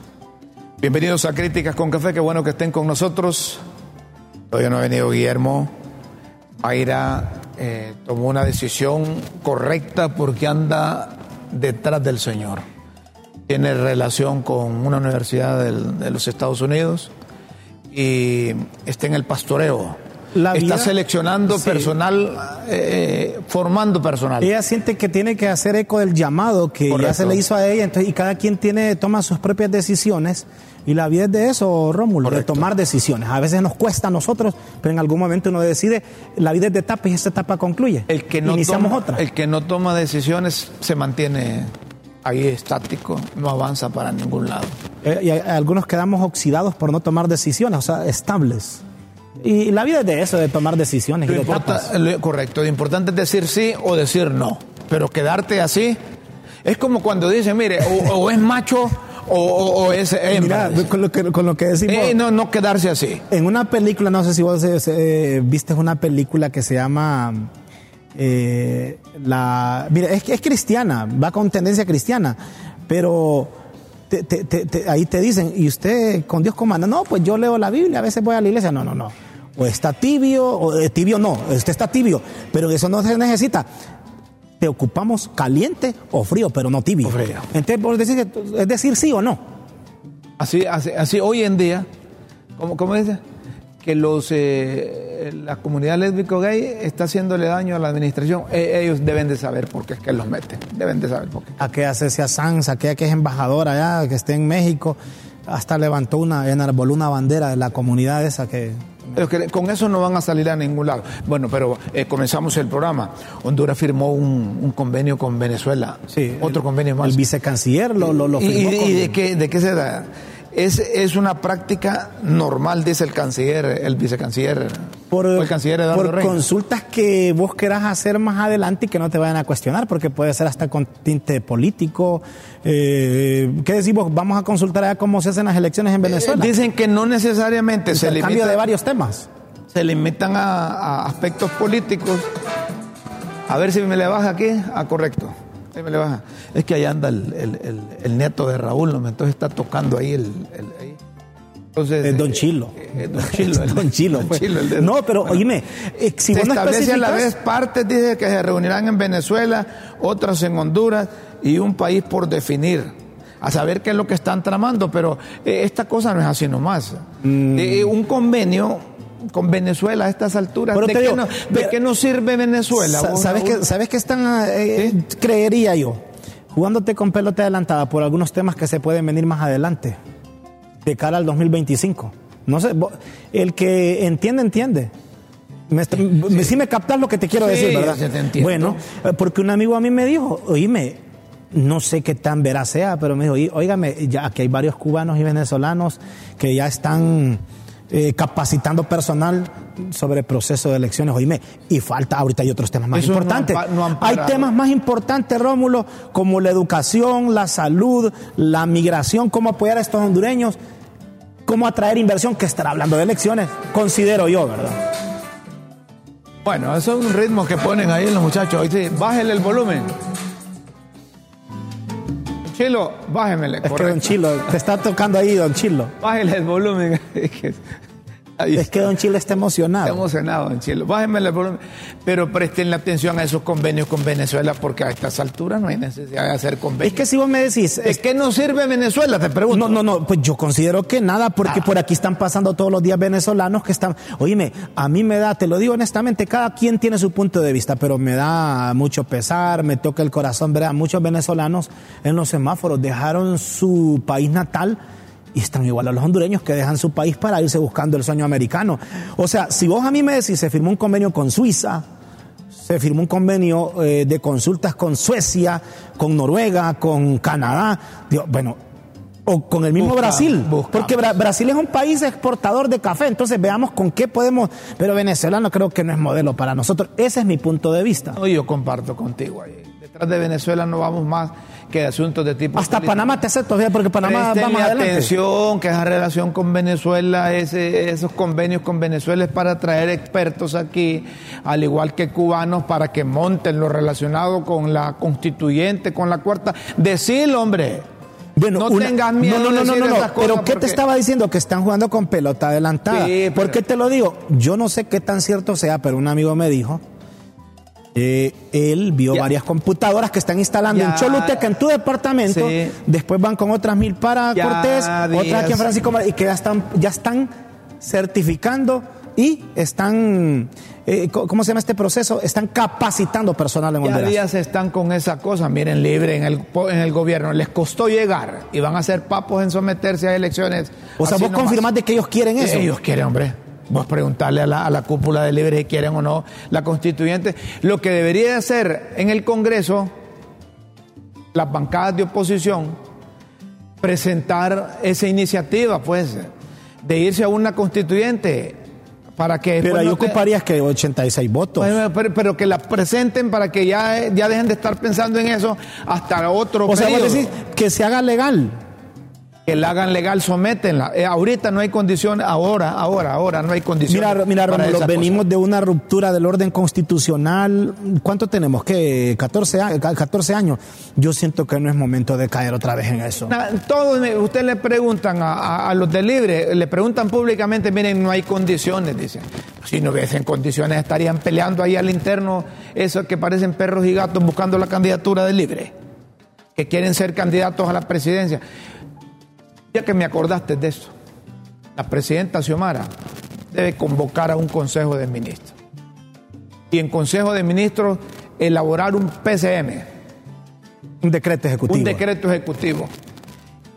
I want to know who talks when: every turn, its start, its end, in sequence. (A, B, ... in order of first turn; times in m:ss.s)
0:00.8-0:03.6 A
0:04.5-0:05.7 A
0:06.6-0:12.6 A
0:13.5-0:17.1 A
0:17.9-0:20.0 A
0:20.3-0:20.9 B
0:20.5-0:24.5 A
0:21.5-0:21.9 B
0:24.4-0:39.2 B
0:26.9-0:27.4 A
0:32.2-0:32.6 A
0:38.1-0:41.7 A
0:42.2-0:44.7 A
0:45.0-0:48.8 B
0:49.4-0:51.9 B
0:51.2-0:56.0 A
0:56.6-1:00.9 A
1:00.3-1:02.2 B
1:01.9-1:03.2 A
1:03.3-1:07.5 B
1:08.1-1:12.4 B
1:12.9-1:13.5 B
1:14.1-1:23.7 B
1:24.6-1:29.4 B
1:27.0-1:27.4 A
1:30.4-1:31.9 A
1:32.6-1:33.2 A
1:33.8-1:41.6 A
1:41.6-1:48.8 B
1:49.1-1:57.2 A
1:56.1-1:59.2 B
1:58.0-2:06.4 A
2:05.1-2:16.5 B
2:16.0-2:18.6 A
2:17.9-2:19.3 B
2:19.7-2:22.3 A
2:23.5-2:31.0 A
2:31.7-2:35.4 A
2:32.0-2:37.3 B
2:36.3-2:53.6 A
2:47.2-2:47.9 B
2:50.7-2:51.7 B
2:52.7-2:56.0 B
2:56.5-3:00.0 B
3:00.8-3:04.9 B
3:05.7-3:11.0 B
3:07.3-3:08.8 A
3:11.5-3:30.6 B
3:22.9-3:24.5 A
3:31.4-3:34.8 B
3:36.4-3:39.9 A
3:42.5-3:44.2 A
3:43.6-3:45.9 B
3:46.0-3:47.6 A
3:48.4-3:48.9 A
3:48.5-3:50.0 B
3:49.8-3:57.0 A
3:56.8-3:58.0 B
3:57.8-3:59.8 A
3:59.5-4:14.8 B
4:15.3-4:21.8 B
4:22.6-4:28.6 B
4:29.2-4:38.2 B
4:29.8-4:31.1 A
4:38.2-4:43.1 A
4:42.6-4:45.1 B
4:44.0-4:57.8 A
4:58.4-5:06.8 B
4:58.6-5:00.8 A
5:02.9-5:03.6 A
5:07.9-5:24.2 B
5:10.7-5:11.4 A
5:12.3-5:12.8 A
5:14.4-5:15.7 A
5:23.8-5:31.7 A
5:31.0-5:32.7 B
5:32.4-5:39.9 A
5:41.3-5:42.8 A
5:43.8-5:46.3 A
5:46.8-5:48.6 A
5:49.2-5:50.2 A
5:49.6-5:51.7 B
5:51.6-5:57.3 A
5:56.7-5:58.6 B
5:59.4-6:05.2 A
6:03.9-6:13.3 B
6:13.3-6:25.7 A
6:26.6-6:28.4 A
6:29.7-6:30.9 A
6:31.8-6:32.9 A
6:33.5-6:35.5 A
6:36.7-6:39.9 A
6:41.0-6:42.0 B
6:41.7-6:42.9 A